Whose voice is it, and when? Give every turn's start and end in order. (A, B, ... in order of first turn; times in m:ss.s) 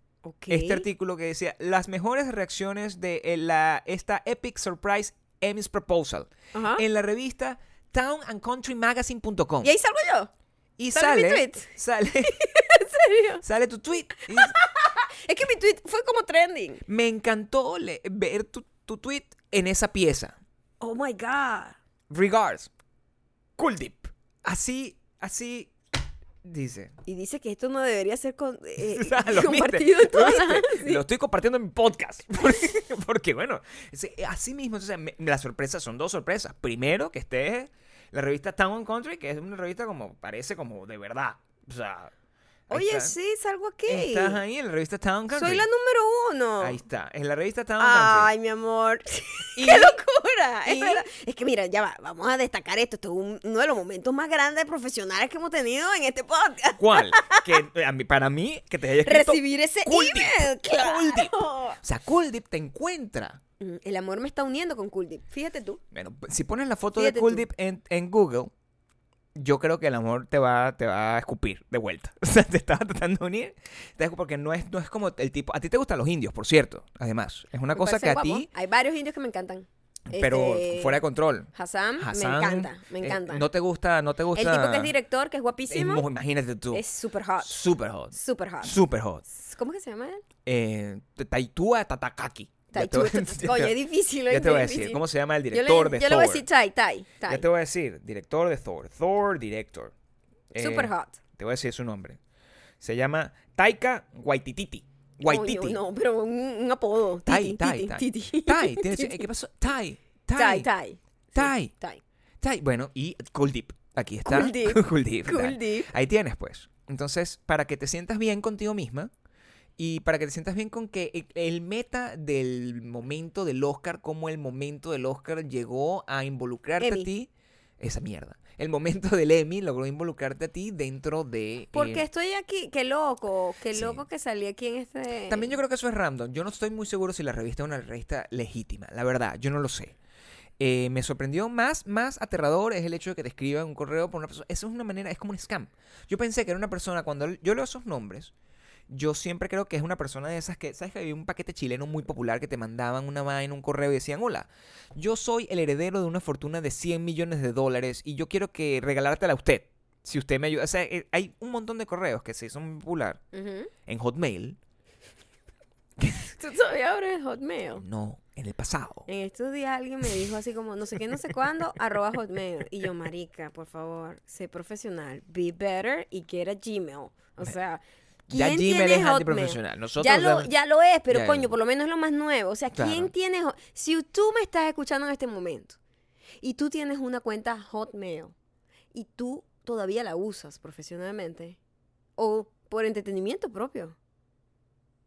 0:00.2-0:00.9 A
0:00.5-0:09.7 B
0:06.5-0:06.8 A
0:09.6-0:10.3 A
0:10.8-0:12.4 B
0:10.9-0:11.7 A
0:12.3-0:13.4 A
0:13.4-0:14.6 B
0:14.3-0:16.8 A
0:16.9-0:20.4 B
0:20.8-0:21.8 A
0:22.1-0:22.7 B
0:23.6-0:25.7 B
0:26.4-0:27.0 B
0:27.1-0:31.0 A
0:28.8-0:42.1 B
0:42.7-0:43.1 B
0:42.7-0:44.4 A
0:43.9-0:45.7 B
0:45.3-0:46.8 A
0:46.6-0:48.3 B
0:47.8-0:57.6 A
0:49.6-0:50.0 B
0:50.6-0:51.1 B
0:56.8-1:03.4 B
0:59.0-1:01.8 A
1:03.6-1:05.8 A
1:05.9-1:08.5 B
1:06.9-1:07.5 A
1:09.4-1:18.5 B
1:17.7-1:21.0 A
1:20.1-1:24.9 B
1:21.5-1:23.5 A
1:24.3-1:26.1 A
1:25.7-1:26.8 B
1:26.7-1:30.2 A
1:27.4-1:29.2 B
1:30.5-1:36.5 B
1:32.7-1:37.4 A
1:37.3-1:39.9 B
1:40.5-1:42.2 B
1:40.6-1:41.2 A
1:42.8-1:45.8 B
1:45.3-1:49.3 A
1:47.3-1:50.7 B
1:50.4-1:52.0 A
1:51.4-1:51.7 B
1:52.4-1:59.1 B
1:54.2-1:55.9 A
1:59.8-2:07.3 B
2:06.8-2:07.1 A
2:07.8-2:12.0 B
2:11.7-2:15.6 A
2:13.7-2:14.0 B
2:15.3-2:20.0 B
2:20.6-2:28.3 B
2:28.9-2:43.2 B
2:43.3-2:43.7 A
2:43.9-2:44.6 B
2:46.0-2:46.3 B
2:46.3-2:47.8 A
2:47.8-2:49.1 B
2:49.1-3:05.8 A
2:58.3-3:00.5 B
3:01.1-3:01.5 B
3:02.7-3:03.1 B
3:06.4-3:08.3 A
3:08.9-3:11.6 A
3:12.2-3:14.0 A